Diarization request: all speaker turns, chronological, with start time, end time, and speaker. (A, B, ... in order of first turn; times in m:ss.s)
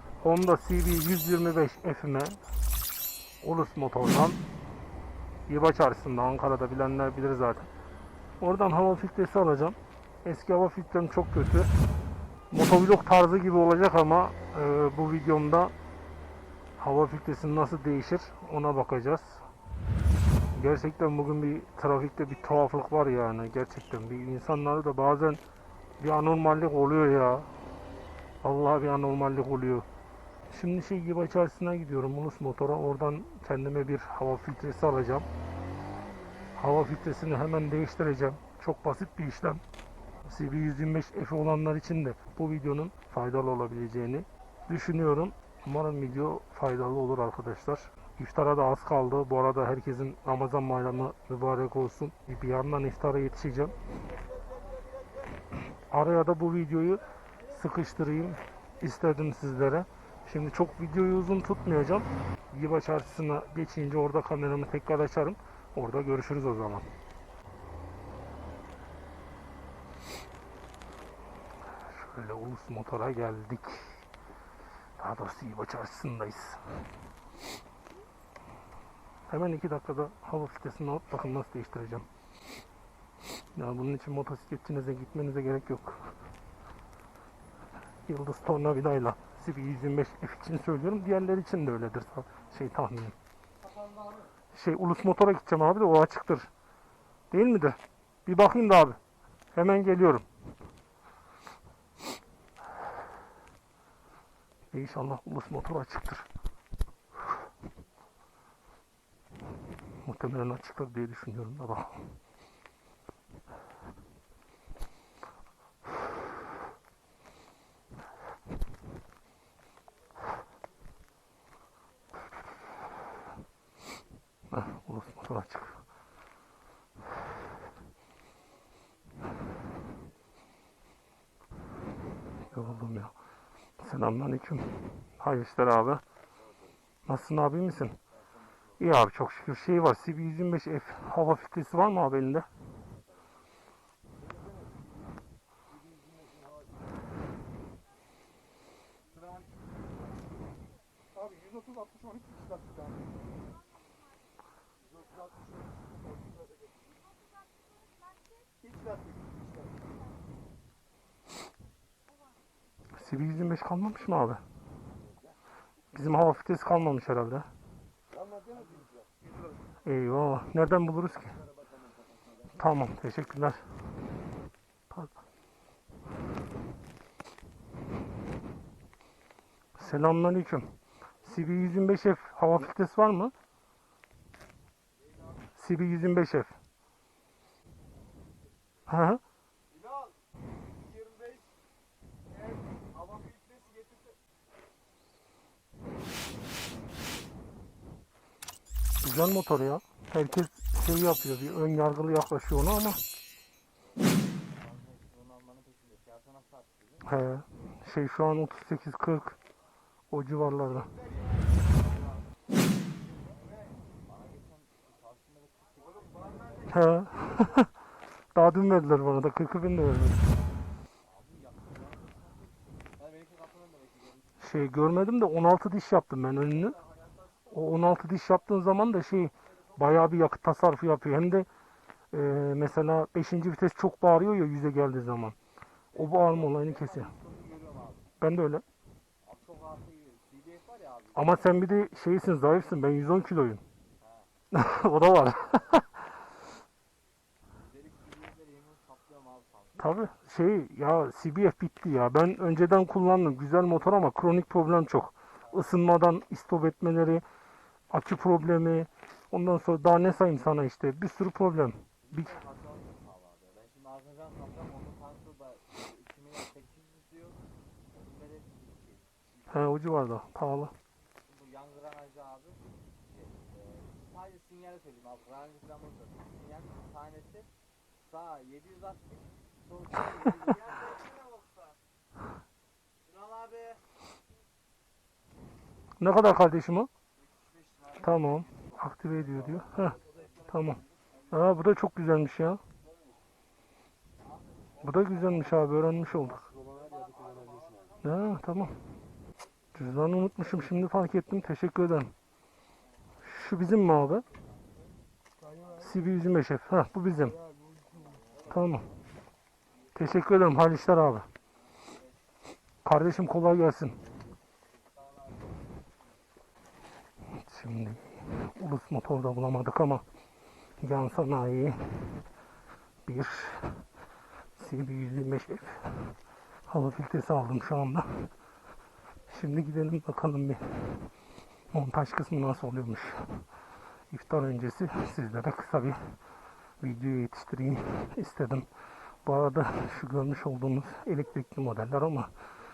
0:00.2-0:02.4 A
0:03.4-0:04.4 A
0:05.5-0:07.7 A
0:08.4-0:11.7 A
0:12.5-0:15.7 A
0:16.8-0:19.4 A
0:20.5-0:25.4 A
0:26.0-0:27.5 A
0:28.4-0:29.9 A
0:30.5-0:35.3 A
0:36.6-0:39.6 A
0:40.2-0:53.8 A
0:55.9-1:06.9 A
1:11.7-1:14.0 A
1:15.0-1:16.6 A
1:19.3-1:22.1 A
1:23.5-1:26.1 A
1:28.0-1:33.2 A
1:34.5-1:36.5 A
1:37.3-1:39.0 A
1:39.5-1:40.3 A
1:44.7-1:46.3 A
1:50.0-1:52.2 A
2:04.5-2:05.8 A
2:12.5-2:13.1 A
2:13.8-2:16.0 A
2:17.1-2:18.0 A
2:18.8-2:22.5 A
2:42.9-2:44.4 A
2:45.9-2:47.5 A
2:49.8-2:51.4 A
2:52.5-2:53.6 A
2:59.8-3:00.7 A
3:01.2-3:03.3 A
3:05.6-3:06.6 A
3:08.9-3:09.2 A
3:19.0-3:23.0 A
3:24.0-3:27.2 B
3:27.0-3:29.4 A
3:30.1-3:30.9 A
3:30.8-3:31.5 B
3:34.0-3:36.7 B
3:36.7-3:37.7 A
3:38.3-3:40.3 A
3:41.0-3:44.4 B
3:44.4-3:46.8 A
3:47.5-3:51.5 A
3:52.1-3:55.4 A
3:55.9-3:57.1 A
3:55.9-3:58.1 B
3:58.2-3:58.6 A
3:59.2-4:01.6 B
4:01.1-4:03.6 A
4:04.0-4:04.3 B
4:04.5-4:06.0 A
4:07.6-4:09.9 B
4:09.8-4:17.2 A
4:17.9-4:22.3 A
4:22.0-4:27.4 B
4:27.9-4:29.9 B
4:29.5-4:30.7 A
4:31.2-4:37.5 B
4:38.0-4:41.7 B
4:43.0-4:43.8 B
4:46.0-4:46.9 A
4:47.6-4:48.0 B
4:48.0-4:52.6 A
4:54.4-4:55.7 B
4:54.8-4:56.5 A
4:56.7-4:57.9 B
4:58.0-4:58.8 A
4:59.7-5:02.1 A
5:03.2-5:04.2 A
5:05.7-5:07.4 A
5:08.0-5:08.5 B
5:08.4-5:08.9 A
5:09.9-5:11.3 A
5:12.8-5:14.0 A
5:14.9-5:15.7 B
5:17.4-5:20.0 A
5:20.8-5:22.2 A
5:23.0-5:23.8 A
5:24.6-5:26.1 A
5:26.7-5:28.3 A
5:29.3-5:31.1 A
5:31.7-5:33.4 A
5:34.1-5:36.1 A
5:36.8-5:38.7 A
5:39.2-5:42.3 A